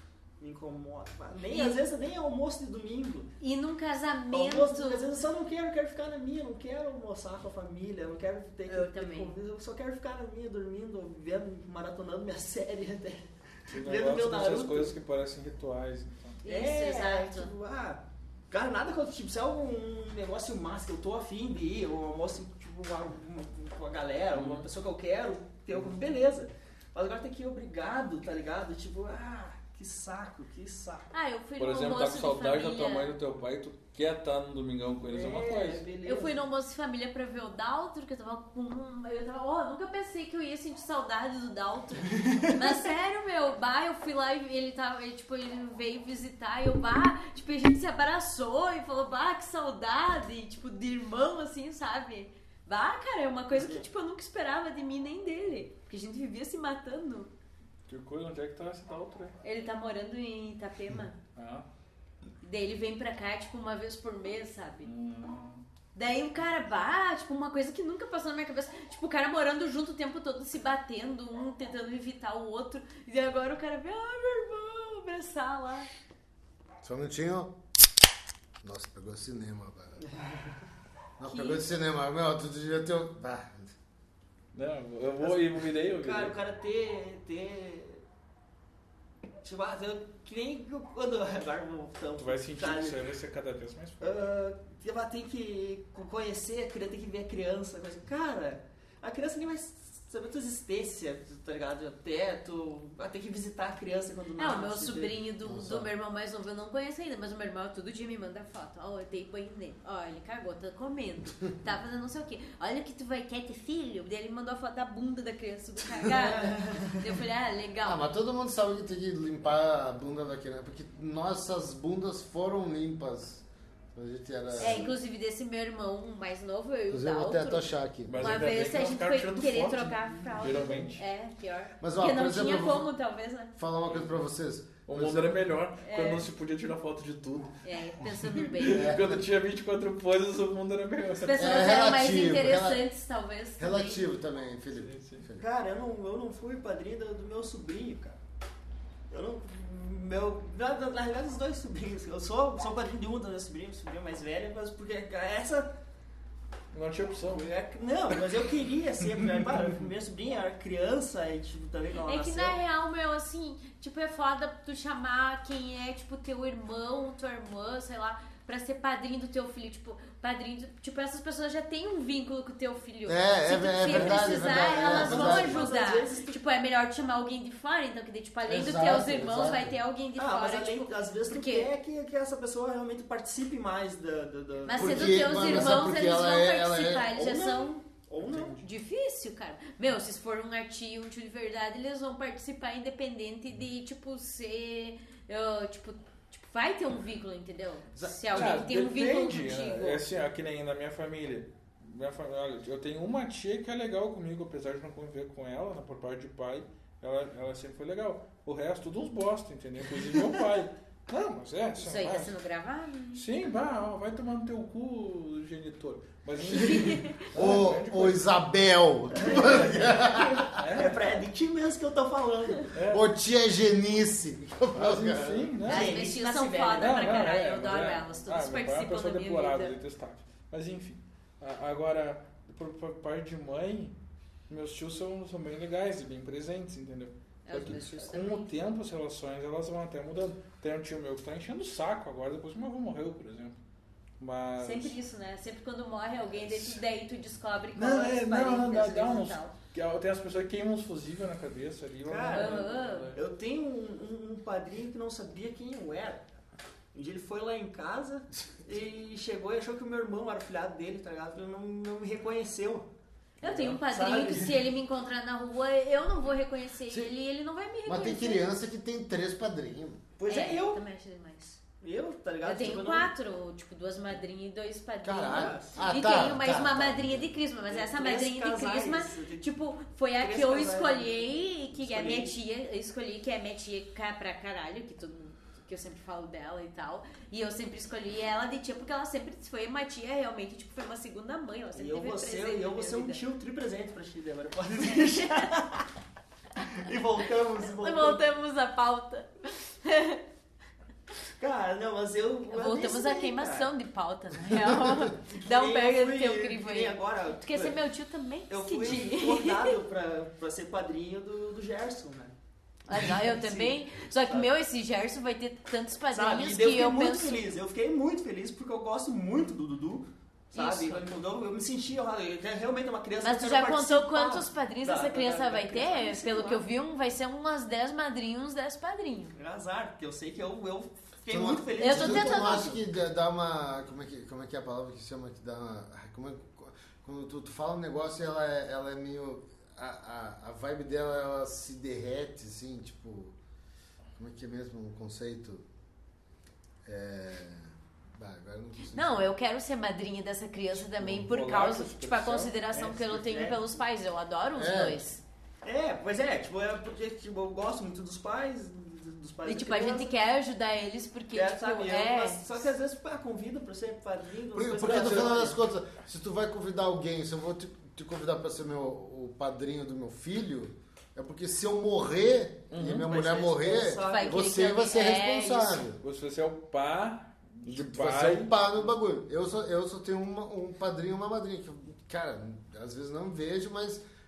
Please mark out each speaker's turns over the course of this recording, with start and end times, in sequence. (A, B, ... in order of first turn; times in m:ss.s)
0:00.4-0:03.3 A
0:01.3-0:01.8 B
0:03.4-0:05.1 B
0:04.3-0:14.9 A
0:08.7-0:09.4 B
0:13.7-0:16.4 C
0:16.4-0:17.5 B
0:16.4-0:31.1 A
0:24.3-0:24.7 C
0:31.1-0:33.2 B
0:31.6-0:35.8 C
0:35.1-0:36.4 A
0:36.0-0:57.3 B
0:42.2-0:42.5 A
0:53.5-0:53.8 A
0:57.9-0:59.4 C
0:59.4-1:01.2 B
1:01.4-1:01.7 C
1:02.4-1:04.9 B
1:04.8-1:05.6 C
1:06.0-1:15.9 B
1:16.8-1:17.5 D
1:18.6-1:20.0 D
1:20.0-1:20.5 A
1:21.2-1:23.7 D
1:21.3-1:21.6 B
1:24.5-1:26.4 C
1:25.2-1:28.0 A
1:29.4-1:33.0 A
1:32.2-1:34.2 C
1:34.0-1:45.2 A
1:44.4-1:58.1 B
1:45.4-1:45.9 D
1:56.0-1:57.2 A
1:57.8-2:05.0 D
2:04.6-2:13.6 B
2:04.6-2:04.9 A
2:06.9-2:08.4 D
2:08.1-2:11.0 C
2:11.8-2:12.9 D
2:13.6-2:15.4 D
2:14.9-2:21.6 C
2:15.8-2:16.3 B
2:17.6-2:18.9 B
2:18.7-2:19.2 D
2:21.2-2:24.1 B
2:21.4-2:22.8 D
2:23.6-2:25.5 D
2:24.7-2:25.3 C
2:25.4-2:28.2 A
2:29.1-2:35.8 A
2:36.7-2:37.4 C
2:37.3-2:42.6 A
2:39.2-2:39.7 C
2:42.1-3:01.7 B
2:53.1-2:55.7 D
2:54.5-2:56.4 A
2:58.5-2:59.8 D
3:00.2-3:05.9 A
3:04.7-3:07.7 B
3:04.7-3:07.1 D
3:07.1-3:08.6 A
3:08.2-3:08.6 C
3:08.6-3:20.0 B
3:18.0-3:18.6 D
3:18.3-3:32.3 C
3:31.8-3:33.2 B
3:33.2-3:38.2 C
3:36.4-3:37.2 B
3:36.8-3:40.6 D
3:39.2-3:39.8 A
3:39.2-3:40.0 C
3:40.5-3:41.2 C
3:40.7-3:42.7 A
3:42.7-3:43.1 C
3:42.9-3:45.6 D
3:44.7-3:46.0 C
3:45.6-3:47.0 A
3:45.7-3:49.8 B
3:46.8-3:54.0 C
3:54.5-4:03.6 C
3:57.5-3:58.5 B
4:04.2-4:05.0 C
4:04.6-4:09.5 B
4:06.4-4:06.8 C
4:07.8-4:13.2 C
4:12.0-4:16.3 A
4:12.3-4:13.2 B
4:16.9-4:22.9 A
4:23.4-4:28.5 B
4:23.4-4:24.6 A
4:27.9-4:30.0 D
4:30.2-4:30.8 A
4:30.3-4:31.6 B
4:31.8-4:33.1 A
4:32.4-4:53.2 B
4:35.0-4:37.3 D
4:35.3-4:35.9 A
4:37.7-4:39.5 A
4:40.2-4:42.3 A
4:51.8-4:55.9 A
4:56.6-4:58.2 A
4:57.6-5:00.2 B
5:01.4-5:03.7 A
5:02.5-5:09.7 B
5:04.5-5:07.8 A
5:08.5-5:12.4 A
5:12.9-5:17.4 B
5:12.9-5:14.5 A
5:16.1-5:26.6 A
5:20.5-5:21.0 B
5:23.2-5:29.4 B
5:29.4-5:32.7 A
5:31.3-5:43.4 D
5:31.8-5:32.8 B
5:44.2-5:45.7 D
5:46.8-5:49.3 D
5:48.9-5:55.2 B
5:50.9-5:52.5 C
5:52.7-5:53.7 A
5:54.6-5:55.0 D
5:55.6-6:00.1 A
5:59.4-6:02.4 B
6:01.3-6:05.6 A
6:04.5-6:16.0 D
6:12.7-6:13.1 C
6:12.9-6:14.5 A
6:14.1-6:15.8 B
6:16.0-6:18.5 C
6:17.6-6:24.0 D